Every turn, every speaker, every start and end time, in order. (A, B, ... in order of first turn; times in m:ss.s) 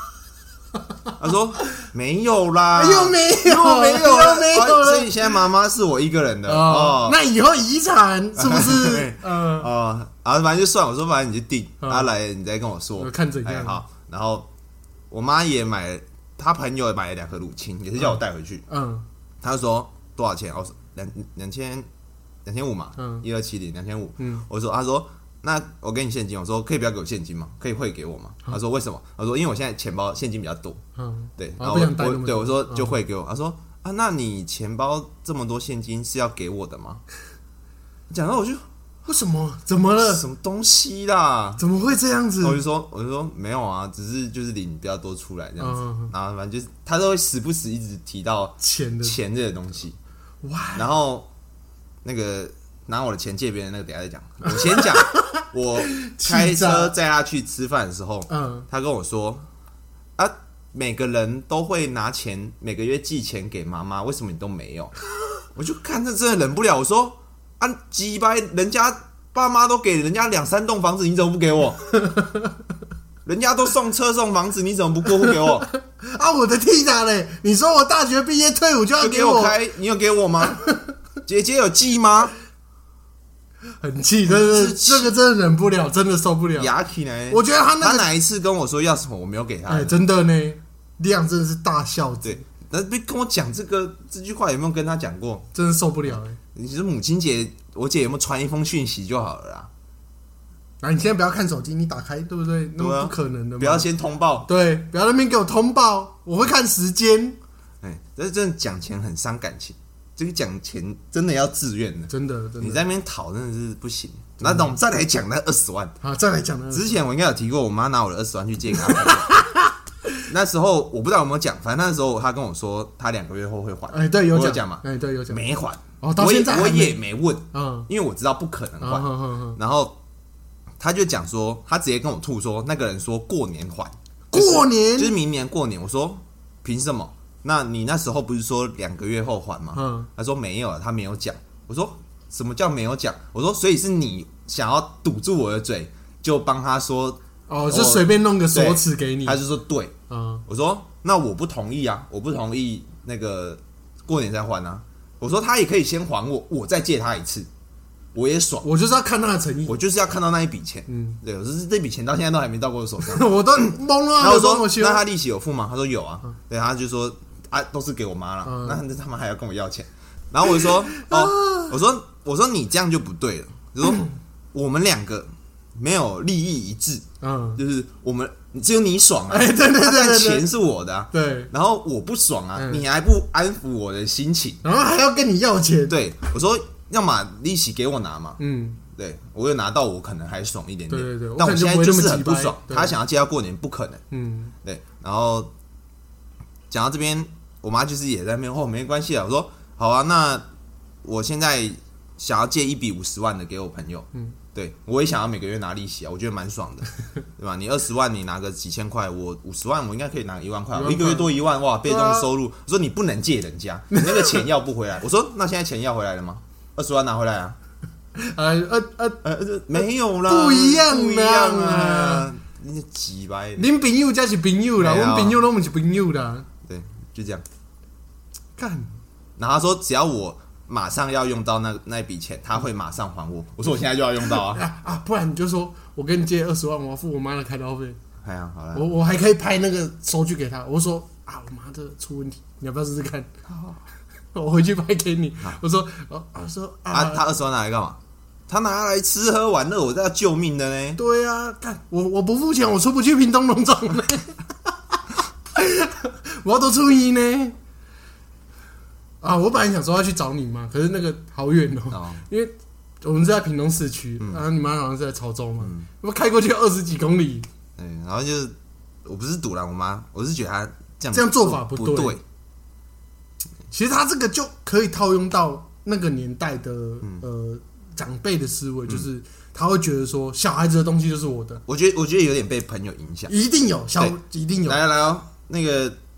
0:01.2-0:07.2 A
0:02.7-0:05.4 B
0:06.4-0:09.7 B
0:08.4-0:14.5 A
0:11.8-0:12.1 B
0:13.0-0:13.8 B
0:15.1-0:18.6 A
0:18.7-0:19.0 B
0:19.4-0:21.9 A
0:22.4-0:30.8 A
0:23.0-0:23.2 B
0:24.2-0:24.4 B
0:31.0-0:33.0 B
0:31.4-0:37.0 A
0:38.1-0:38.6 A
0:39.0-0:40.2 B
0:40.0-0:41.6 A
0:41.6-0:42.6 B
0:42.4-0:50.0 A
0:45.6-0:46.1 B
0:48.6-0:49.2 B
0:50.4-0:50.9 B
0:50.7-0:51.3 A
0:52.0-0:59.5 A
0:54.5-0:56.9 B
0:58.3-0:58.7 B
1:00.2-1:04.9 A
1:05.5-1:11.8 A
1:12.0-1:12.5 B
1:13.2-1:15.7 A
1:15.7-1:19.6 B
1:19.0-1:20.6 A
1:20.5-1:20.9 B
1:21.2-1:22.3 A
1:23.8-1:26.7 B
1:24.3-1:25.1 A
1:26.6-1:30.0 A
1:27.3-1:28.1 B
1:29.7-1:32.4 B
1:32.2-1:35.5 A
1:35.5-1:36.4 B
1:36.5-1:39.7 A
1:40.8-1:43.9 B
1:42.8-1:44.5 A
1:44.4-1:47.4 B
1:47.8-1:56.0 A
1:52.1-1:52.8 B
1:54.4-1:54.7 B
1:56.0-1:57.0 B
1:56.7-1:59.3 A
1:58.8-1:59.7 B
2:00.3-2:10.0 A
2:03.9-2:05.4 B
2:06.0-2:07.0 B
2:07.5-2:07.9 B
2:08.8-2:09.6 B
2:10.8-2:29.9 A
2:14.3-2:15.2 B
2:19.7-2:20.1 B
2:27.5-2:29.4 B
2:30.1-2:30.4 B
2:30.4-2:37.5 A
2:38.1-2:38.7 A
2:38.6-2:39.8 B
2:39.6-3:04.6 A
2:40.9-2:41.2 B
2:43.0-2:45.0 B
2:48.4-2:48.8 B
2:50.9-2:51.7 B
2:57.2-2:57.6 B
2:59.3-3:00.4 B
3:01.1-3:01.5 B
3:02.6-3:02.8 B
3:04.6-3:05.9 B
3:05.9-3:08.4 A
3:08.4-3:08.8 B
3:08.9-3:14.0 A
3:10.9-3:12.9 B
3:14.1-3:14.5 B
3:14.6-3:15.5 A
3:16.7-3:20.5 A
3:21.0-3:37.6 A
3:30.7-3:32.3 B
3:33.9-3:34.4 B
3:38.2-3:39.2 B
3:39.2-3:43.7 A
3:40.2-3:42.3 B
3:43.6-3:46.5 B
3:44.8-3:45.4 A
3:46.6-3:47.4 A
3:48.6-3:48.9 B
3:49.4-3:54.6 A
3:54.2-3:58.0 B
3:58.2-3:58.9 A
3:58.7-4:03.3 B
4:03.5-4:03.8 A
4:04.3-4:07.3 B
4:06.9-4:11.0 A
4:11.0-4:14.7 B
4:15.5-4:17.6 B
4:19.2-4:27.5 B
4:21.9-4:22.2 A
4:25.6-4:25.9 A
4:27.8-4:32.2 A
4:31.1-4:32.2 B
4:33.7-4:41.6 B
4:41.6-4:43.3 A
4:43.3-4:44.8 B
4:44.0-4:46.0 A